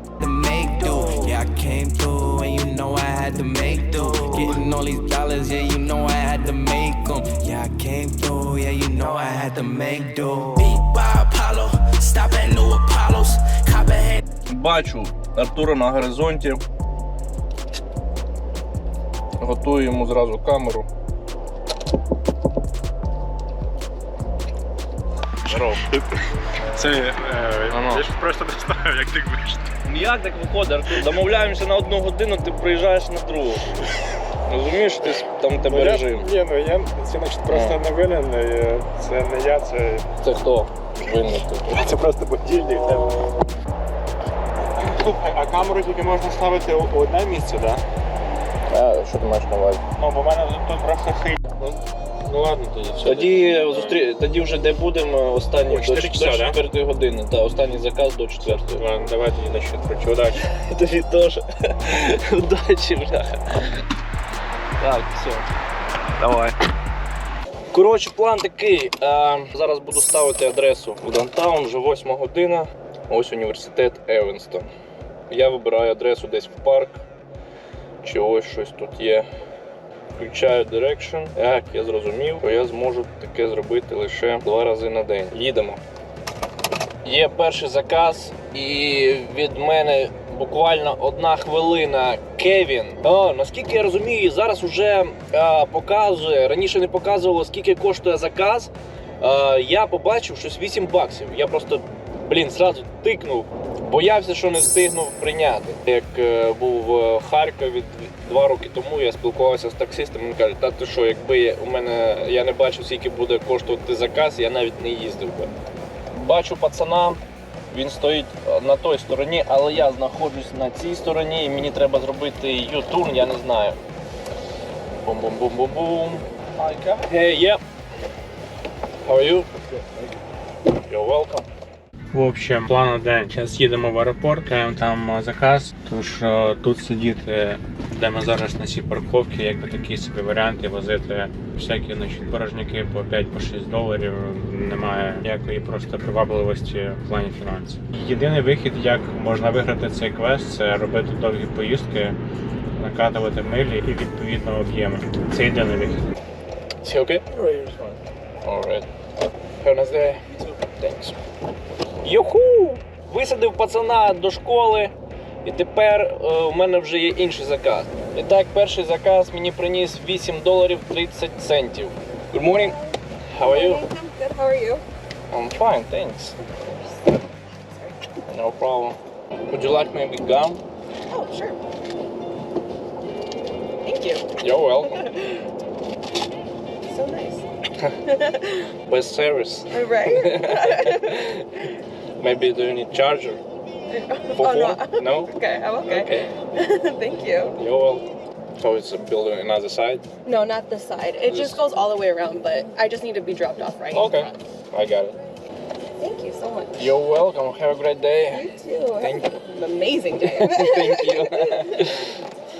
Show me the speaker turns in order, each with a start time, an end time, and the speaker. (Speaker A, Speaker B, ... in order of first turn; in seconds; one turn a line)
Speaker A: 0.2-14.2
Speaker B: 14.5-16.6
Speaker B: 19.4-20.9
Speaker B: 25.4-25.8
Speaker C: 26.7-29.6
Speaker B: 27.7-28.0
Speaker B: 29.8-33.7
Speaker B: 34.5-36.3
Speaker C: 35.7-40.0
Speaker B: 37.5-37.8
Speaker B: 40.2-41.8
Speaker C: 41.7-43.3
Speaker C: 44.6-47.8
Speaker B: 48.7-49.8
Speaker C: 50.0-53.9
Speaker B: 53.0-58.8
Speaker C: 55.7-56.5
Speaker C: 58.4-60.4
Speaker B: 60.3-63.6
Speaker B: 64.8-65.5
Speaker B: 66.2-66.5
Speaker B: 67.7-74.7
Speaker B: 75.3-77.0
Speaker B: 78.0-79.3
Speaker B: 80.1-85.8
Speaker B: 87.0-115.5
Speaker B: 116.1-117.2
Speaker B: 117.7-123.8
Speaker B: 125.0-127.6
Speaker B: 129.0-129.6
Speaker B: 130.9-131.5
Speaker C: 132.1-152.2
Speaker C: 152.8-156.1
Speaker B: 156.8-158.9
Speaker B: 159.6-161.2
Speaker B: 162.0-164.9
Speaker B: 165.4-172.8
Speaker D: 172.5-174.8
Speaker B: 173.3-173.8
Speaker B: 175.3-176.4
Speaker D: 176.8-178.0
Speaker B: 178.3-179.0
Speaker B: 179.5-180.6
Speaker D: 181.1-181.6
Speaker D: 183.8-185.4
Speaker B: 184.4-185.1
Speaker D: 186.9-187.4
Speaker B: 187.8-191.7
Speaker D: 188.1-188.6
Speaker D: 189.7-191.2
Speaker B: 192.2-193.4
Speaker D: 193.9-197.5
Speaker B: 194.3-196.3
Speaker B: 197.3-198.1
Speaker B: 198.6-200.0
Speaker D: 200.2-204.4
Speaker B: 201.2-201.6
Speaker B: 203.9-205.2
Speaker D: 206.0-206.9
Speaker B: 206.8-208.5
Speaker D: 208.3-211.9
Speaker B: 209.0-209.3
Speaker B: 210.2-212.2